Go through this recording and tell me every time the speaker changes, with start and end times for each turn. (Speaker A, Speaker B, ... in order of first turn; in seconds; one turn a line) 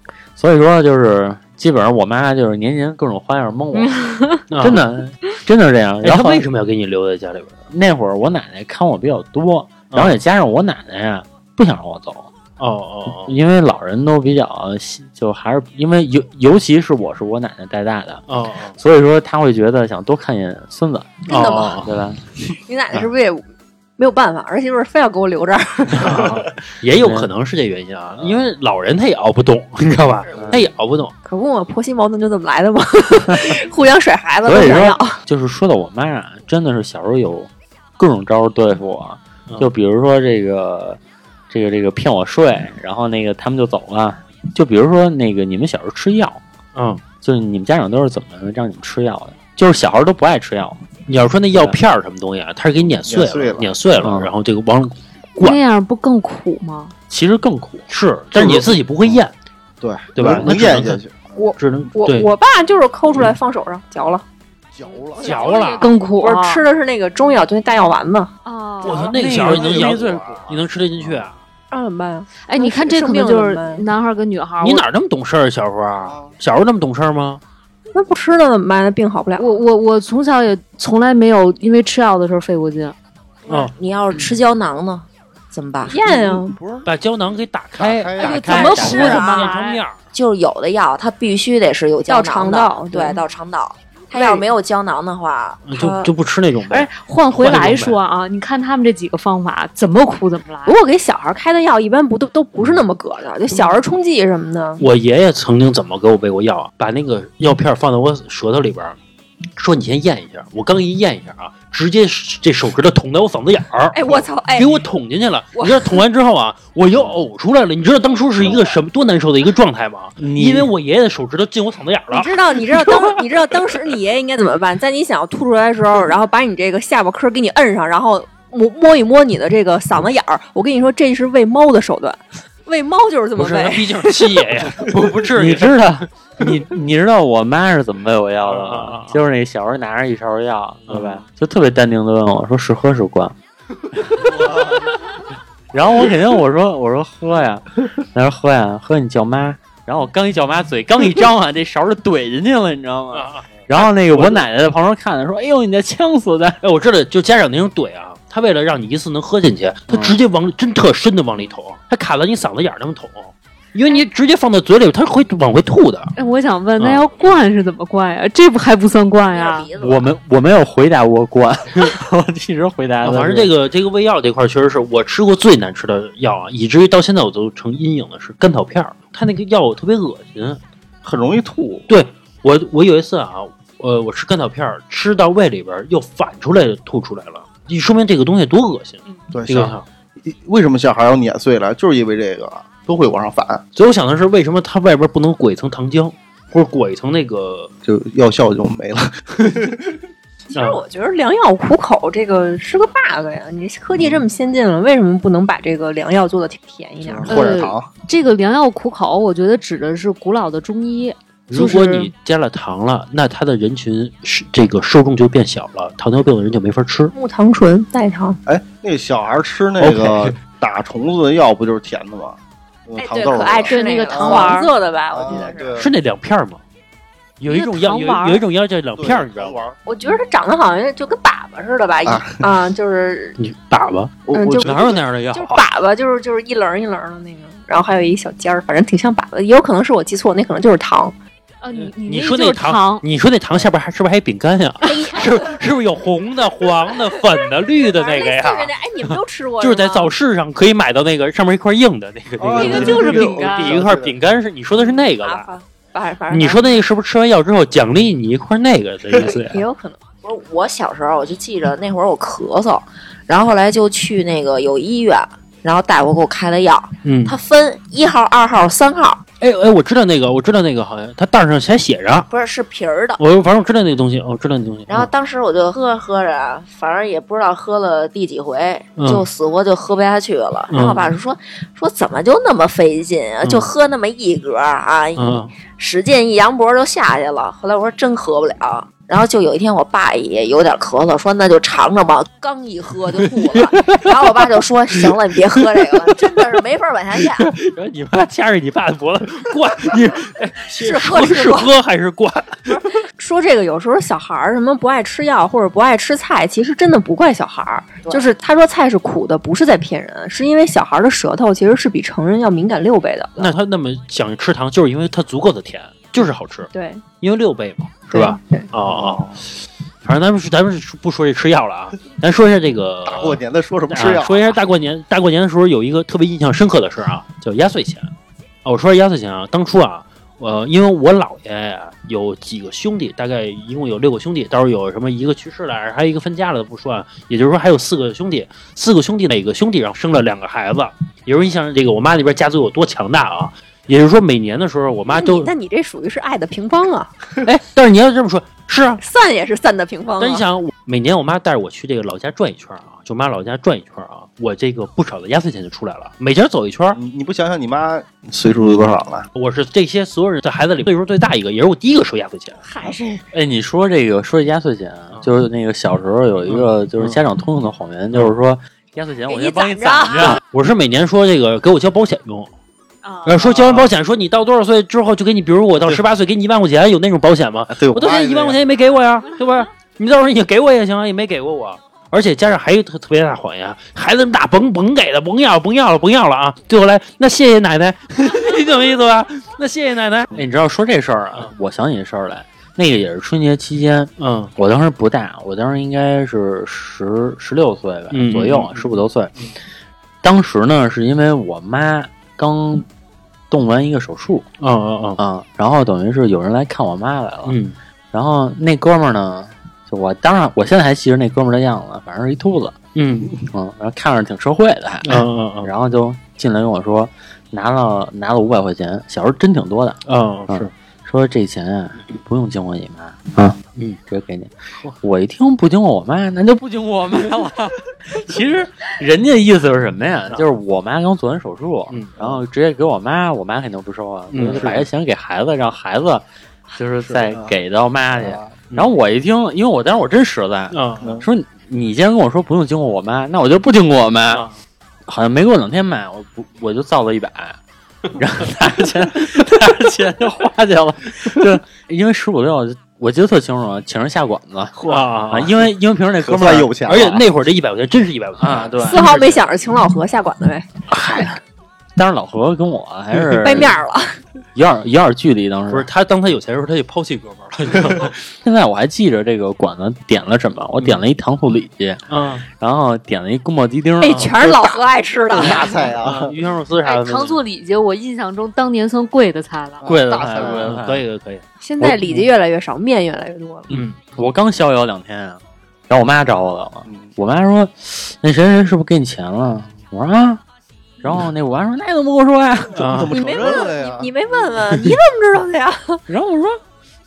Speaker A: 0.4-6.4
Speaker B: 3.7-4.4
Speaker C: 4.5-4.9
Speaker C: 6.0-7.6
Speaker A: 7.7-12.3
Speaker C: 12.6-13.3
Speaker A: 13.1-18.2
Speaker C: 18.3-18.8
Speaker A: 18.8-22.2
Speaker D: 21.3-21.8
Speaker C: 21.3-21.9
Speaker D: 22.6-23.4
Speaker D: 24.0-26.2
Speaker C: 26.0-31.1
Speaker A: 26.9-27.3
Speaker D: 31.2-35.2
Speaker A: 34.4-46.4
Speaker C: 46.8-47.0
Speaker A: 47.2-50.8
Speaker C: 51.1-55.6
Speaker A: 51.5-51.8
Speaker E: 53.1-53.8
Speaker A: 54.0-54.3
Speaker B: 55.4-56.9
Speaker A: 57.1-57.9
Speaker C: 57.9-59.3
Speaker E: 58.4-58.7
Speaker E: 59.8-61.4
Speaker C: 60.1-61.0
Speaker D: 61.4-64.2
Speaker C: 61.6-62.3
Speaker E: 64.7-65.5
Speaker B: 65.2-66.6
Speaker D: 65.2-68.3
Speaker C: 65.2-65.9
Speaker B: 68.4-69.1
Speaker C: 68.8-71.4
Speaker A: 68.9-70.5
Speaker E: 69.1-71.2
Speaker D: 71.7-73.8
Speaker B: 72.5-74.9
Speaker C: 74.6-77.4
Speaker E: 76.0-76.4
Speaker D: 77.9-79.6
Speaker B: 79.4-82.9
Speaker C: 83.5-84.3
Speaker F: 83.5-85.9
Speaker D: 85.9-86.5
Speaker E: 85.9-86.9
Speaker C: 86.8-90.0
Speaker E: 87.8-88.5
Speaker D: 88.2-89.5
Speaker A: 88.2-89.2
Speaker B: 88.5-89.8
Speaker F: 90.1-96.1
Speaker D: 92.1-93.2
Speaker D: 94.1-94.5
Speaker C: 95.7-98.0
Speaker B: 96.6-100.8
Speaker D: 100.7-104.8
Speaker C: 104.8-109.0
Speaker C: 109.6-122.3
Speaker D: 113.9-114.9
Speaker D: 115.5-116.0
Speaker A: 120.2-120.7
Speaker D: 122.1-134.3
Speaker C: 133.4-136.0
Speaker A: 135.3-143.3
Speaker C: 138.4-139.2
Speaker C: 140.9-141.2
Speaker A: 144.0-144.5
Speaker E: 144.2-144.9
Speaker A: 145.7-156.6
Speaker C: 153.1-154.4
Speaker C: 156.6-166.1
Speaker A: 159.9-160.2
Speaker B: 166.2-169.7
Speaker C: 166.8-167.3
Speaker F: 169.3-170.1
Speaker A: 169.8-173.5
Speaker C: 173.0-180.6
Speaker E: 181.0-181.8
Speaker C: 181.9-189.8
Speaker E: 189.3-193.6
Speaker C: 193.8-197.7
Speaker E: 197.8-199.9
Speaker D: 200.5-207.3
Speaker C: 200.5-200.8
Speaker E: 207.0-207.9
Speaker B: 207.3-212.1
Speaker C: 211.5-217.1
Speaker D: 217.1-218.4
Speaker E: 218.5-224.5
Speaker C: 219.8-220.4
Speaker D: 223.0-225.8
Speaker B: 223.7-224.7
Speaker E: 225.1-225.9
Speaker C: 225.8-226.6
Speaker C: 227.4-229.6
Speaker B: 227.4-228.4
Speaker E: 229.0-229.8
Speaker D: 229.8-233.4
Speaker E: 232.1-232.4
Speaker C: 233.4-235.6
Speaker E: 234.2-235.0
Speaker D: 234.3-234.7
Speaker D: 235.3-241.1
Speaker B: 241.6-243.0
Speaker C: 241.7-248.7
Speaker D: 244.8-245.6
Speaker D: 247.8-250.1
Speaker C: 249.6-255.5
Speaker E: 252.4-254.1
Speaker B: 252.5-253.8
Speaker D: 252.6-253.4
Speaker D: 254.8-256.6
Speaker C: 256.3-259.6
Speaker D: 259.2-260.0
Speaker F: 260.2-269.2
Speaker C: 267.0-267.4
Speaker C: 269.4-272.3
Speaker F: 272.3-273.2
Speaker C: 273.2-275.1
Speaker F: 274.9-297.5
Speaker C: 279.0-279.3
Speaker C: 280.7-281.1
Speaker C: 283.4-283.7
Speaker C: 285.2-285.5
Speaker C: 293.2-296.5
Speaker C: 297.1-302.8
Speaker D: 300.7-301.7
Speaker D: 302.7-313.5
Speaker C: 313.4-316.7
Speaker D: 316.7-317.0
Speaker C: 317.2-319.4
Speaker D: 318.1-318.7
Speaker E: 318.9-319.3
Speaker C: 320.0-328.1
Speaker E: 323.0-324.6
Speaker C: 328.6-345.5
Speaker D: 345.1-347.1
Speaker C: 347.4-349.0
Speaker D: 349.0-350.4
Speaker C: 350.2-357.0
Speaker E: 356.9-359.3
Speaker C: 359.3-362.6
Speaker D: 362.6-363.2
Speaker A: 363.3-370.4
Speaker C: 366.4-367.2
Speaker D: 369.3-370.4
Speaker C: 370.3-372.5
Speaker B: 373.0-373.5
Speaker C: 373.2-390.3
Speaker E: 377.7-378.6
Speaker B: 379.3-379.6
Speaker A: 390.3-399.3
Speaker C: 394.2-394.5
Speaker C: 398.1-399.5
Speaker A: 400.2-402.9
Speaker A: 403.5-404.5
Speaker C: 404.6-405.2
Speaker A: 405.2-407.6
Speaker C: 407.4-407.8
Speaker A: 408.1-412.8
Speaker C: 412.9-413.4
Speaker A: 413.4-423.6
Speaker C: 415.0-415.7
Speaker C: 420.1-420.7
Speaker A: 424.1-444.5
Speaker C: 431.9-432.1
Speaker C: 434.3-434.9
Speaker E: 434.4-434.8
Speaker E: 438.1-438.6
Speaker C: 440.7-441.1
Speaker E: 441.0-441.2
Speaker C: 444.3-444.6
Speaker A: 445.1-447.6
Speaker A: 448.2-457.2
Speaker C: 454.8-455.5
Speaker E: 456.2-457.2
Speaker C: 456.9-459.5
Speaker A: 458.4-459.1
Speaker D: 458.8-460.7
Speaker A: 460.9-461.3
Speaker A: 462.0-463.8
Speaker D: 463.2-464.2
Speaker A: 464.5-465.9
Speaker C: 465.7-468.2
Speaker A: 468.3-474.6
Speaker C: 472.1-472.5
Speaker D: 474.0-475.9
Speaker E: 475.3-476.3
Speaker C: 476.0-477.4
Speaker B: 476.8-479.9
Speaker E: 479.8-480.8
Speaker A: 479.8-481.0
Speaker C: 480.4-481.4
Speaker D: 481.6-483.7
Speaker A: 481.8-482.2
Speaker C: 483.7-484.0
Speaker A: 483.7-490.4
Speaker A: 491.0-493.0
Speaker C: 492.8-493.1
Speaker E: 492.8-494.1
Speaker D: 493.1-496.0
Speaker A: 496.1-496.6